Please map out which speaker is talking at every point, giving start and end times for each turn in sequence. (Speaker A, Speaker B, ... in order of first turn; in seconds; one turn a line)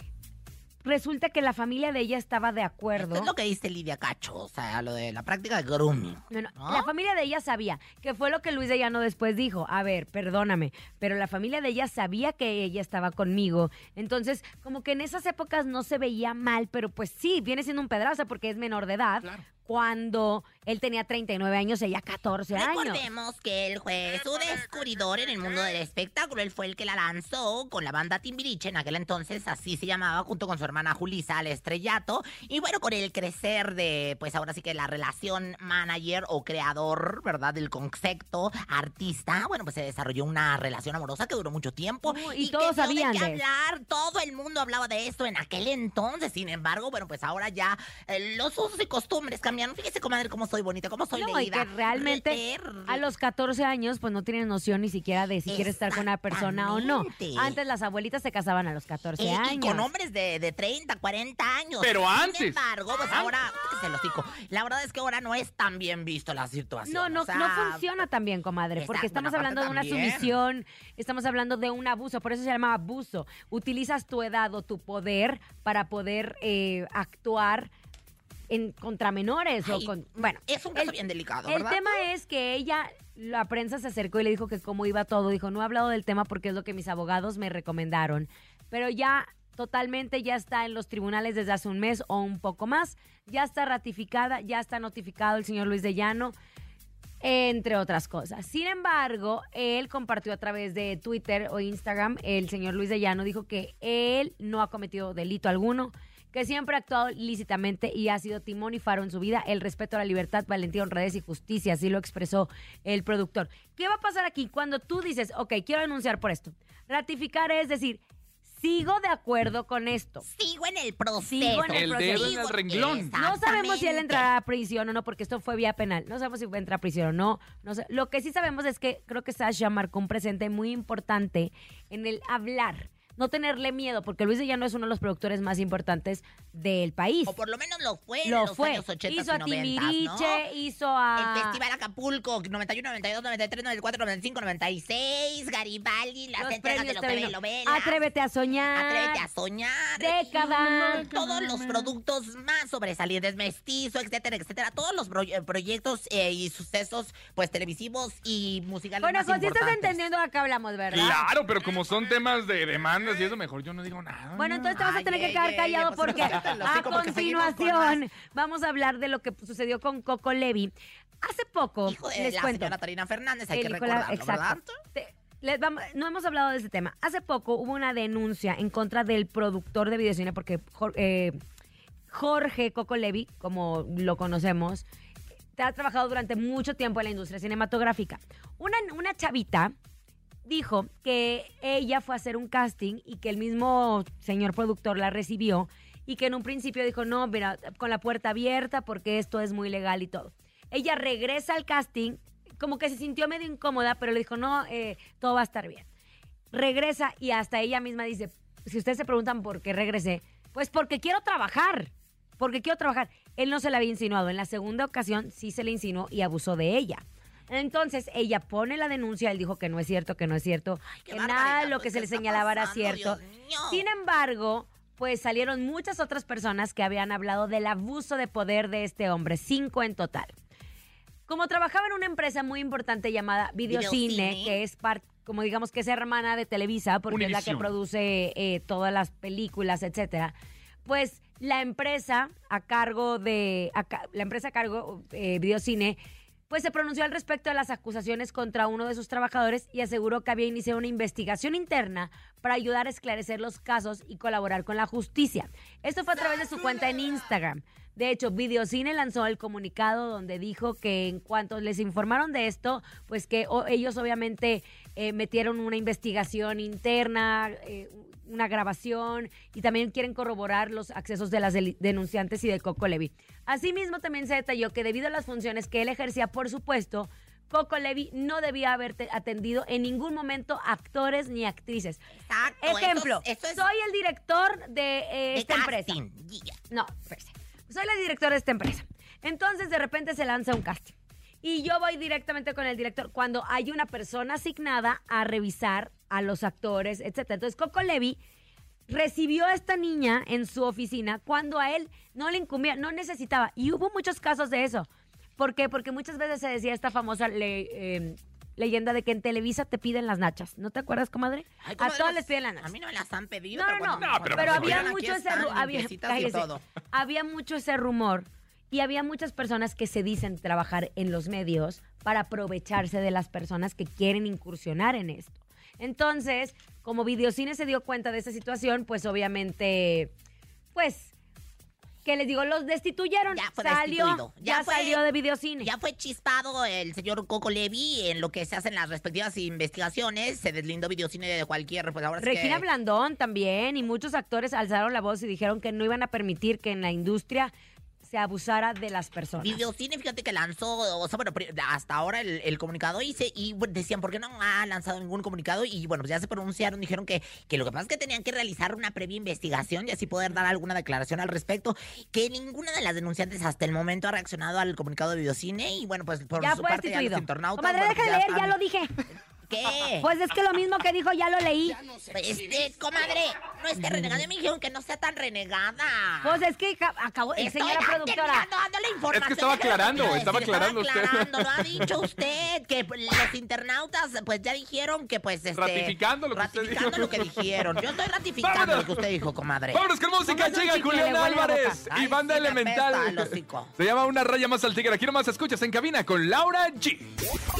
Speaker A: 0.8-3.3
Speaker B: 3.0-6.9
Speaker A: 6.3-23.0
Speaker B: 22.5-53.0
Speaker A: 42.0-43.4
Speaker A: 51.1-59.9
Speaker B: 55.5-57.5
Speaker B: 59.2-67.8
Speaker C: 61.8-63.3
Speaker A: 66.8-77.7
Speaker B: 68.8-70.4
Speaker A: 78.5-80.9
Speaker B: 79.6-81.9
Speaker A: 81.5-96.3
Speaker A: 97.2-120.2
Speaker B: 120.2-124.3
Speaker A: 121.3-122.3
Speaker C: 121.7-123.1
Speaker A: 123.2-137.3
Speaker B: 137.3-140.4
Speaker A: 138.2-141.6
Speaker B: 141.2-148.0
Speaker A: 146.4-149.2
Speaker B: 148.7-160.0
Speaker A: 150.0-151.1
Speaker C: 150.4-151.9
Speaker A: 159.0-161.2
Speaker C: 160.9-164.7
Speaker A: 164.3-172.7
Speaker B: 164.7-168.0
Speaker B: 171.8-174.8
Speaker A: 173.5-181.4
Speaker A: 182.1-184.8
Speaker A: 185.6-189.7
Speaker A: 190.4-205.8
Speaker A: 206.5-223.2
Speaker B: 220.9-223.8
Speaker A: 223.7-230.3
Speaker A: 231.3-240.3
Speaker B: 233.7-234.6
Speaker C: 237.1-237.7
Speaker A: 240.8-282.0
Speaker B: 282.1-283.6
Speaker A: 282.6-286.0
Speaker B: 285.3-286.6
Speaker A: 286.7-298.2
Speaker A: 298.9-304.9
Speaker A: 305.4-312.7
Speaker B: 311.6-316.6
Speaker A: 313.5-330.1
Speaker C: 314.0-314.9
Speaker A: 330.7-331.1
Speaker A: 332.0-335.7
Speaker B: 333.3-335.0
Speaker B: 335.6-342.6
Speaker A: 342.2-347.5
Speaker A: 348.0-349.6
Speaker B: 349.4-368.6
Speaker A: 366.4-368.9
Speaker B: 369.5-370.1
Speaker A: 370.0-371.8
Speaker B: 372.1-376.4
Speaker A: 373.8-374.2
Speaker A: 376.2-378.5
Speaker B: 377.4-389.8
Speaker C: 379.1-381.9
Speaker C: 385.5-387.8
Speaker C: 388.4-389.1
Speaker C: 389.7-397.1
Speaker A: 390.2-391.8
Speaker B: 391.9-393.7